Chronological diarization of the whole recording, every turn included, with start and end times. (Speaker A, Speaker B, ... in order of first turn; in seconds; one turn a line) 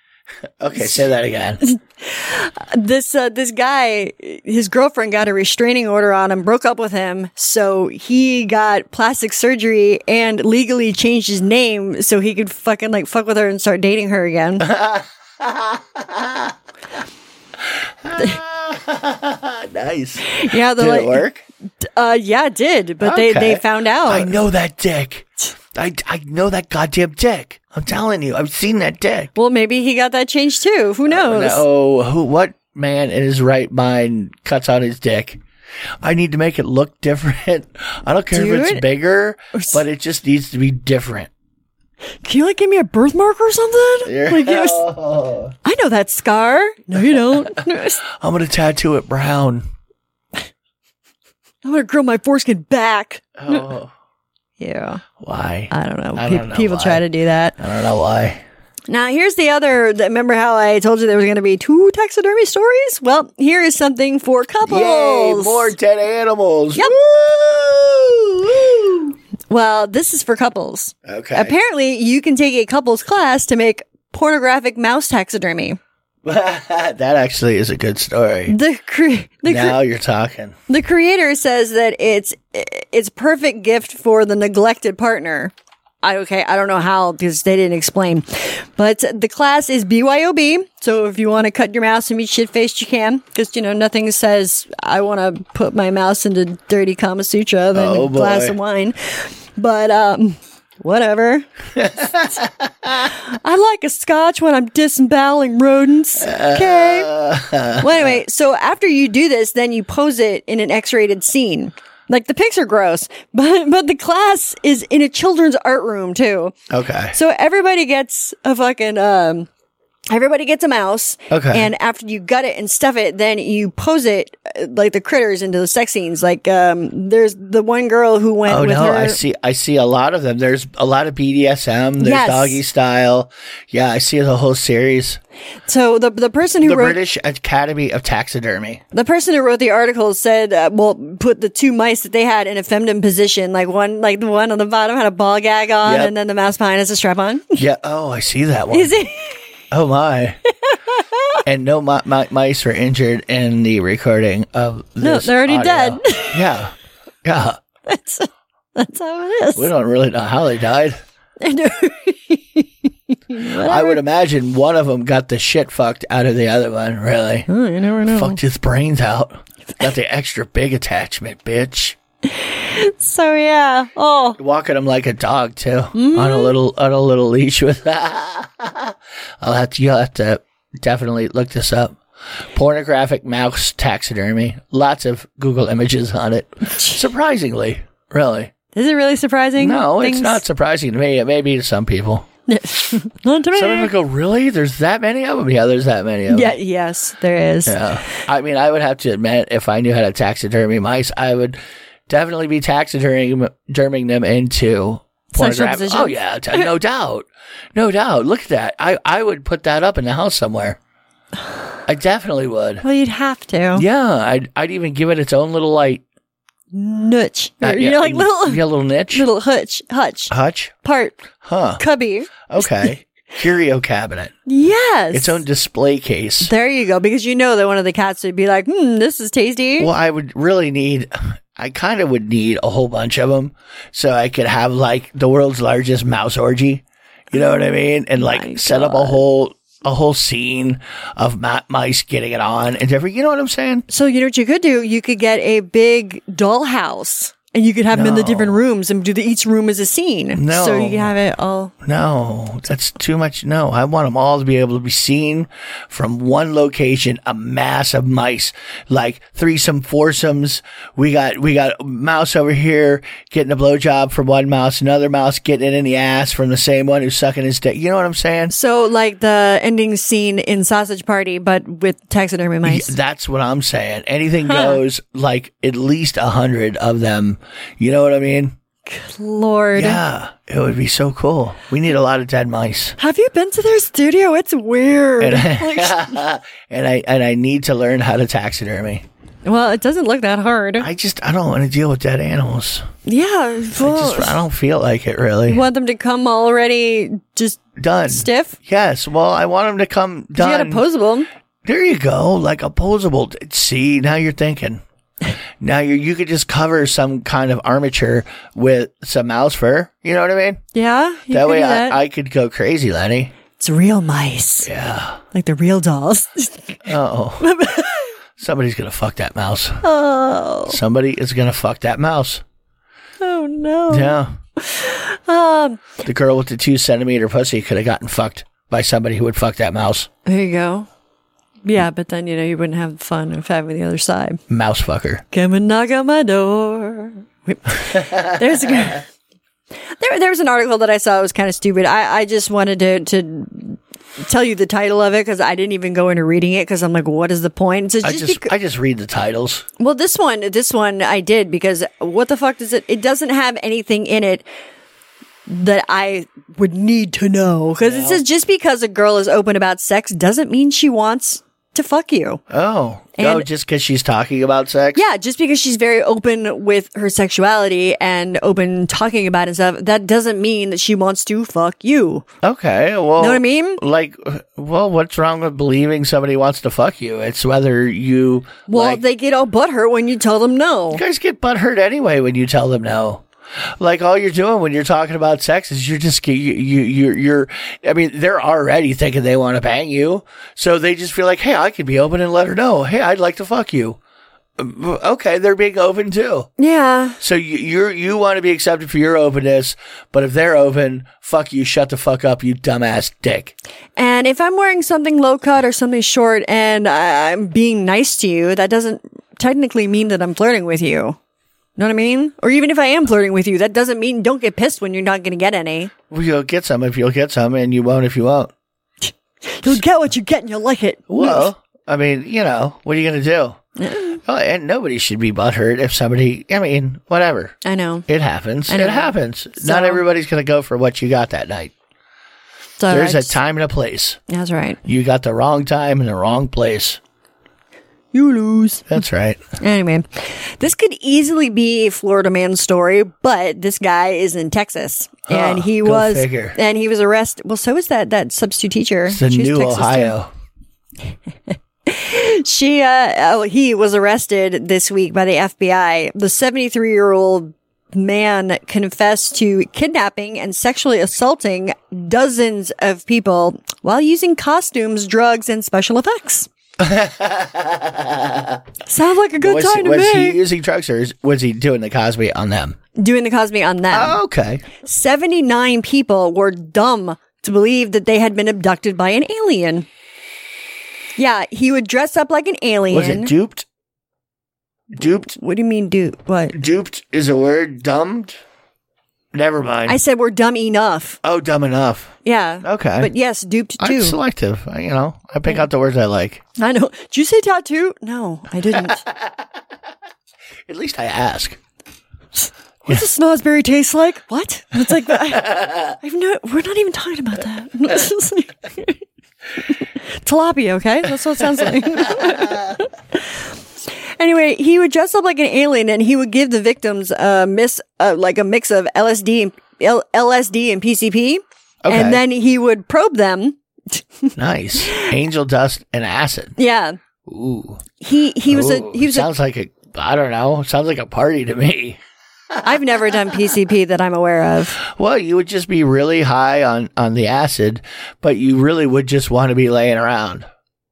Speaker A: 0.6-1.6
Speaker B: 1.6-14.7
Speaker A: 14.6-16.5
Speaker A: 18.0-21.4
Speaker B: 20.2-21.2
Speaker B: 21.8-24.4
Speaker A: 23.0-29.3
Speaker B: 29.3-31.6
Speaker A: 31.1-35.4
Speaker A: 36.0-41.3
Speaker B: 38.3-38.8
Speaker B: 39.5-39.8
Speaker B: 42.2-44.8
Speaker A: 44.0-45.5
Speaker B: 45.6-48.0
Speaker A: 47.0-49.7
Speaker B: 51.6-53.7
Speaker A: 53.4-53.9
Speaker B: 54.6-55.0
Speaker A: 55.2-57.0
Speaker B: 55.7-57.6
Speaker A: 57.6-58.4
Speaker B: 58.9-65.7
Speaker A: 64.6-69.1
Speaker B: 69.5-75.8
Speaker A: 71.0-71.5
Speaker A: 76.2-78.5
Speaker B: 78.5-79.8
Speaker A: 79.5-80.5
Speaker B: 80.7-101.5
Speaker A: 97.7-98.5
Speaker A: 101.8-103.1
Speaker B: 103.0-107.1
Speaker A: 106.2-108.2
Speaker B: 107.8-116.5
Speaker A: 116.7-117.2
Speaker B: 117.1-119.5
Speaker B: 120.1-129.2
Speaker A: 121.3-121.7
Speaker A: 128.4-135.2
Speaker B: 132.0-132.6
Speaker B: 135.7-137.0
Speaker A: 136.6-138.8
Speaker B: 138.9-147.6
Speaker A: 145.8-146.1
Speaker A: 147.6-148.9
Speaker B: 148.7-149.4
Speaker A: 149.7-150.4
Speaker B: 150.7-151.4
Speaker A: 151.4-156.7
Speaker B: 155.0-156.4
Speaker A: 157.2-157.6
Speaker B: 157.9-159.7
Speaker A: 159.5-161.0
Speaker B: 161.4-164.0
Speaker A: 163.5-167.5
Speaker B: 167.5-168.4
Speaker A: 168.0-172.0
Speaker B: 172.2-174.4
Speaker A: 174.4-182.0
Speaker B: 175.9-176.5
Speaker A: 182.5-188.5
Speaker B: 186.7-187.0
Speaker B: 188.7-190.4
Speaker A: 189.6-192.2
Speaker B: 192.5-193.9
Speaker A: 193.5-196.6
Speaker B: 196.3-198.1
Speaker A: 197.7-210.8
Speaker B: 205.3-206.7
Speaker A: 211.9-212.8
Speaker B: 212.8-213.8
Speaker A: 213.7-216.0
Speaker B: 216.7-221.2
Speaker A: 217.6-219.3
Speaker A: 220.3-220.7
Speaker A: 221.4-221.8
Speaker B: 221.8-222.9
Speaker A: 222.4-224.3
Speaker B: 224.5-225.4
Speaker A: 225.1-226.5
Speaker B: 226.4-229.9
Speaker A: 229.8-243.8
Speaker B: 237.3-239.2
Speaker B: 243.9-251.7
Speaker A: 247.9-248.6
Speaker A: 250.3-251.1
Speaker A: 251.8-268.5
Speaker B: 268.5-272.9
Speaker A: 272.6-278.5
Speaker B: 274.4-274.8
Speaker B: 278.9-280.0
Speaker A: 279.7-283.0
Speaker B: 283.0-286.2
Speaker A: 285.2-289.0
Speaker B: 289.4-290.9
Speaker A: 290.8-292.9
Speaker B: 293.1-294.4
Speaker A: 293.8-295.6
Speaker B: 295.5-298.6
Speaker A: 297.8-300.8
Speaker B: 300.4-301.3
Speaker A: 301.6-304.8
Speaker A: 305.6-310.6
Speaker B: 310.7-312.0
Speaker A: 311.3-313.3
Speaker B: 313.6-314.7
Speaker A: 314.6-315.2
Speaker B: 315.3-316.8
Speaker A: 316.9-317.5
Speaker B: 317.4-318.1
Speaker A: 318.4-319.8
Speaker B: 319.8-320.8
Speaker A: 320.7-322.4
Speaker B: 323.2-325.9
Speaker A: 323.9-324.4
Speaker A: 326.0-330.1
Speaker B: 330.2-330.9
Speaker B: 331.6-334.4
Speaker A: 334.5-335.2
Speaker B: 335.3-339.0
Speaker A: 337.9-338.9
Speaker B: 340.0-348.5
Speaker A: 348.0-349.6
Speaker B: 349.8-354.4
Speaker B: 355.5-362.4
Speaker A: 357.8-358.2
Speaker A: 362.5-365.0
Speaker B: 363.1-363.5
Speaker B: 364.9-372.2
Speaker A: 372.4-379.0
Speaker B: 373.2-373.8
Speaker B: 378.7-381.0
Speaker A: 380.9-383.2
Speaker A: 383.8-394.0
Speaker A: 394.6-396.5
Speaker B: 396.6-397.2
Speaker A: 397.2-403.5
Speaker B: 403.9-411.2
Speaker B: 411.8-415.9
Speaker A: 416.1-418.5
Speaker B: 419.0-421.5
Speaker A: 421.1-423.6
Speaker B: 423.8-424.2
Speaker A: 424.2-427.6
Speaker B: 427.6-428.1
Speaker A: 428.1-431.7
Speaker B: 428.7-430.0
Speaker B: 432.8-433.4
Speaker A: 432.9-434.2
Speaker B: 434.3-434.8
Speaker A: 434.8-437.0
Speaker B: 438.1-438.9
Speaker A: 438.9-439.4
Speaker B: 439.6-450.1
Speaker A: 445.3-446.6
Speaker A: 449.1-450.3
Speaker B: 451.5-466.5
Speaker A: 466.8-468.6
Speaker B: 468.9-470.4
Speaker A: 469.4-472.8
Speaker B: 472.9-474.2
Speaker A: 473.9-474.7
Speaker B: 474.8-479.9
Speaker B: 481.2-483.3
Speaker A: 482.9-483.6
Speaker A: 484.9-485.3
Speaker B: 485.3-486.6
Speaker A: 486.5-488.4
Speaker A: 489.3-490.0
Speaker B: 489.9-491.2
Speaker A: 491.2-493.1
Speaker B: 492.2-494.2
Speaker A: 493.8-496.4
Speaker B: 496.6-499.0
Speaker A: 498.7-499.4
Speaker A: 500.7-501.6
Speaker B: 502.4-509.0
Speaker A: 504.9-505.9
Speaker B: 509.7-513.4
Speaker A: 511.6-512.8
Speaker B: 514.2-525.1
Speaker A: 521.8-522.2
Speaker A: 524.4-526.6
Speaker B: 526.6-527.0
Speaker A: 527.2-527.8
Speaker B: 528.0-529.3
Speaker A: 528.5-532.0
Speaker A: 532.5-533.3
Speaker B: 532.6-534.8
Speaker A: 534.8-540.5